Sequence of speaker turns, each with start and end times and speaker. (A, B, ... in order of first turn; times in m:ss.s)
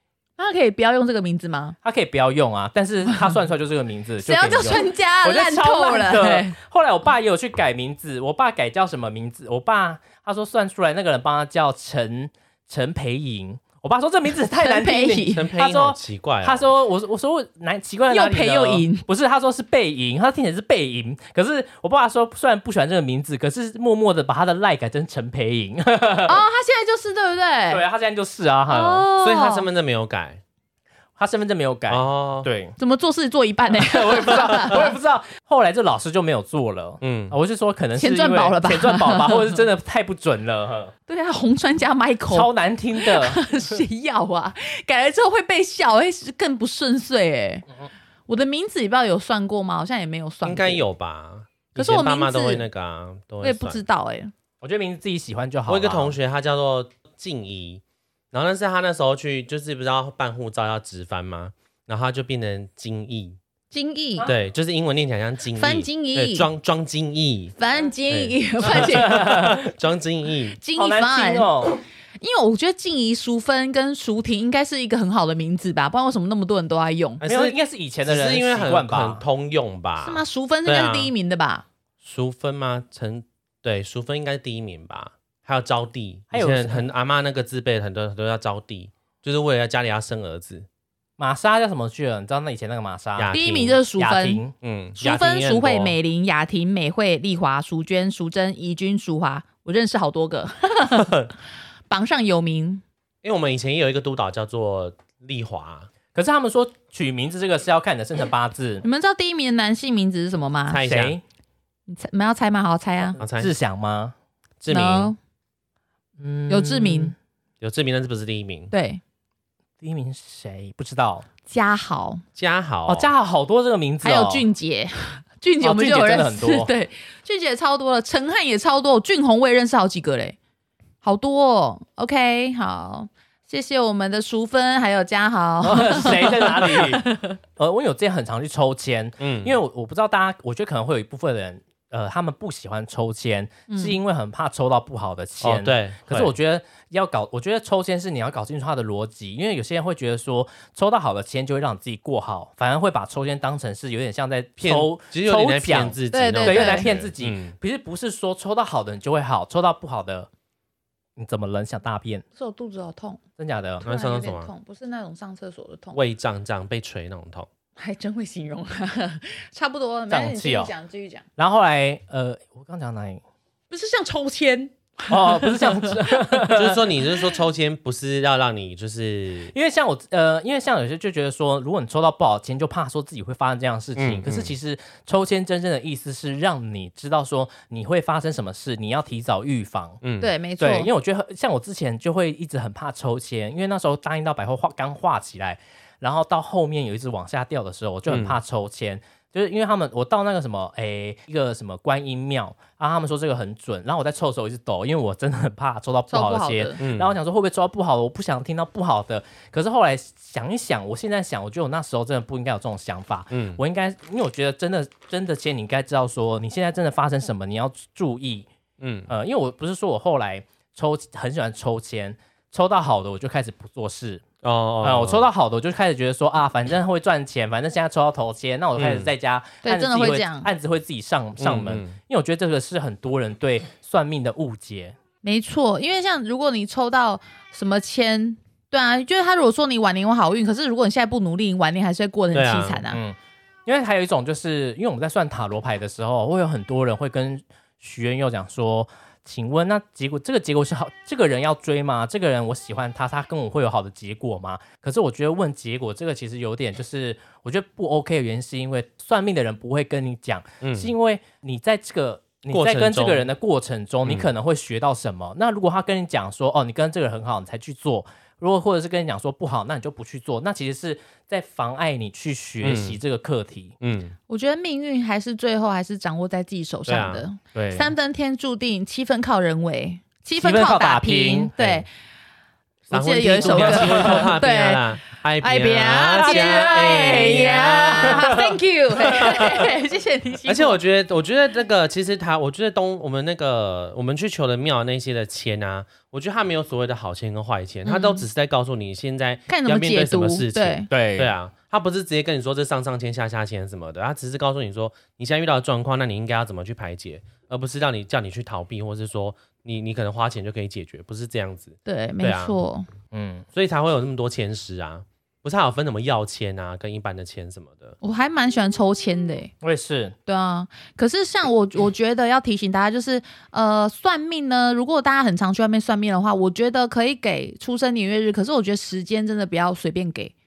0:00.4-0:01.8 A
0:01.8-0:26.4 B
0:04.2-0:06.6 A
0:14.5-0:15.5 A
0:15.3-0:16.7 C
0:18.1-0:19.0 A
0:26.2-0:27.8 A
0:27.7-0:29.1 B
0:28.7-0:29.7 A
0:29.2-0:30.4 C
0:31.2-0:32.8 B
0:31.9-0:32.5 C
0:32.8-0:34.9 A
0:33.8-0:40.9 B
0:37.0-0:37.4 C
0:38.0-0:39.6 A
0:41.1-0:47.7 A
0:42.3-0:43.5 B
0:48.3-0:50.8 A
0:50.4-0:53.8 C
0:51.8-0:52.6 A
0:53.4-0:54.3 A
0:54.6-0:56.2 B
0:55.7-1:03.4 C
1:03.7-1:04.3 A
1:04.3-1:07.6 C
1:05.6-1:06.5 A
1:07.6-1:09.4 A
1:08.1-1:10.6 C
1:08.8-1:09.6 B
1:10.6-1:11.5 A
1:10.8-1:11.8 B
1:12.2-1:17.2 A
1:17.2-1:21.1 C
1:17.2-1:19.2 B
1:20.0-1:21.6 A
1:22.0-1:30.7 C
1:26.3-1:26.9 B
1:31.2-1:33.4 B
1:33.2-1:33.8 C
1:33.3-1:34.4 A
1:33.9-1:34.5 B
1:34.6-1:36.0 C
1:35.0-1:41.2 A
1:41.9-1:42.8 A
1:43.2-1:45.9 C
1:46.1-1:48.8 B
1:48.8-1:50.8 A
1:50.7-1:51.2 C
1:50.8-1:51.2 B
1:51.9-1:53.2 A
1:53.2-1:53.5 C
1:53.4-1:54.2 B
1:54.6-1:55.1 C
1:54.7-1:55.2 A
1:56.2-1:57.2 B
1:56.5-1:57.1 A
1:57.6-1:58.7 C
1:58.7-1:59.0 A
1:59.8-2:01.3 B
2:01.5-2:02.2 A
2:02.4-2:03.1 C
2:02.9-2:04.5 B
2:04.0-2:10.4 A
2:05.6-2:06.7 B
2:11.0-2:17.4 A
2:15.6-2:40.3 B
2:19.2-2:19.6 C
2:23.7-2:24.0 A
2:25.4-2:26.3 C
2:34.6-2:37.6 C
2:36.1-2:36.9 A
2:41.2-2:42.2 B
2:42.4-2:43.2 A
2:43.4-2:43.8 B
2:43.8-2:46.0 A
2:43.8-2:44.5 C
2:45.9-2:47.5 C
2:47.8-2:51.2 A
2:50.1-2:50.7 B
2:51.4-2:53.2 B
2:53.7-2:56.4 A
2:55.1-2:57.0 B
2:56.5-2:59.5 C
2:59.5-3:10.0 B
3:04.0-3:04.5 C
3:10.0-3:10.3 C
3:10.2-3:10.9 A
3:10.6-3:38.5 B
3:18.1-3:18.4 C
3:26.1-3:26.8 A
3:26.8-3:27.2 C
3:33.3-3:33.6 C
3:38.8-3:39.1 C
3:39.1-3:44.2 B
3:44.4-3:45.2 C
3:44.8-3:55.0 B
3:48.8-3:49.1 C
3:49.6-3:50.5 A
3:51.4-3:52.0 C
3:55.2-4:03.0 A
4:02.3-4:02.8 C
4:02.9-4:33.8 B
4:20.6-4:20.9 C
4:22.5-4:23.3 C
4:24.0-4:24.3 C
4:32.6-4:33.0 C
4:33.8-4:34.2 C
4:34.3-4:41.9 A
4:36.9-4:37.2 C
4:37.6-4:37.9 B
4:40.4-4:41.5 B
4:41.6-4:41.9 C
4:42.9-4:48.4 C
4:42.9-4:50.8 A
4:43.4-4:44.3 B
4:46.2-4:48.5 B
4:49.1-4:49.7 C
4:50.5-5:12.6 C
4:57.9-4:58.2 A
4:59.5-5:00.9 A
5:00.9-5:01.3 B
5:11.9-5:12.9 A
5:13.1-5:13.5 B
5:13.6-5:18.0 C
5:18.0-5:19.5 A
5:19.6-5:20.2 B
5:20.3-5:30.3 A